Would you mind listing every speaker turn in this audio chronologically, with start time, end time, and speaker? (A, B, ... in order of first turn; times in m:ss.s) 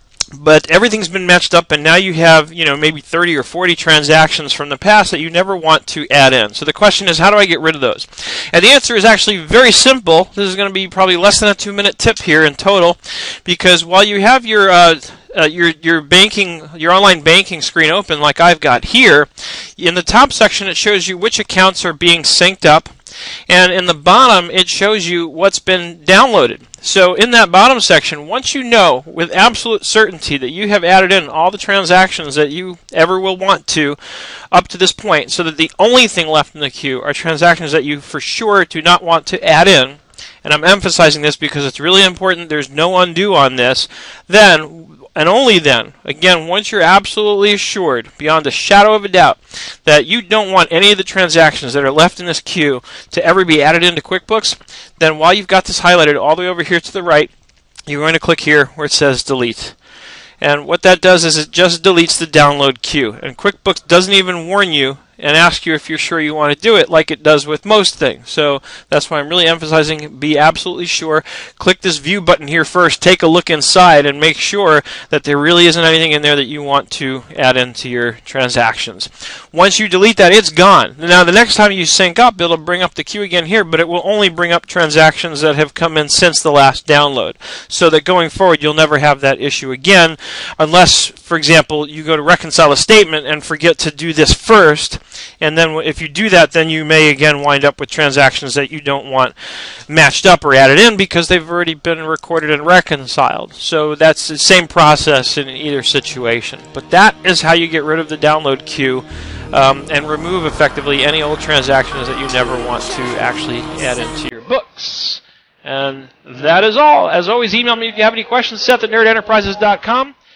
0:00.3-0:22.9 A
0:23.5-0:57.3 A
0:57.8-0:59.8 A
1:00.4-2:00.1 A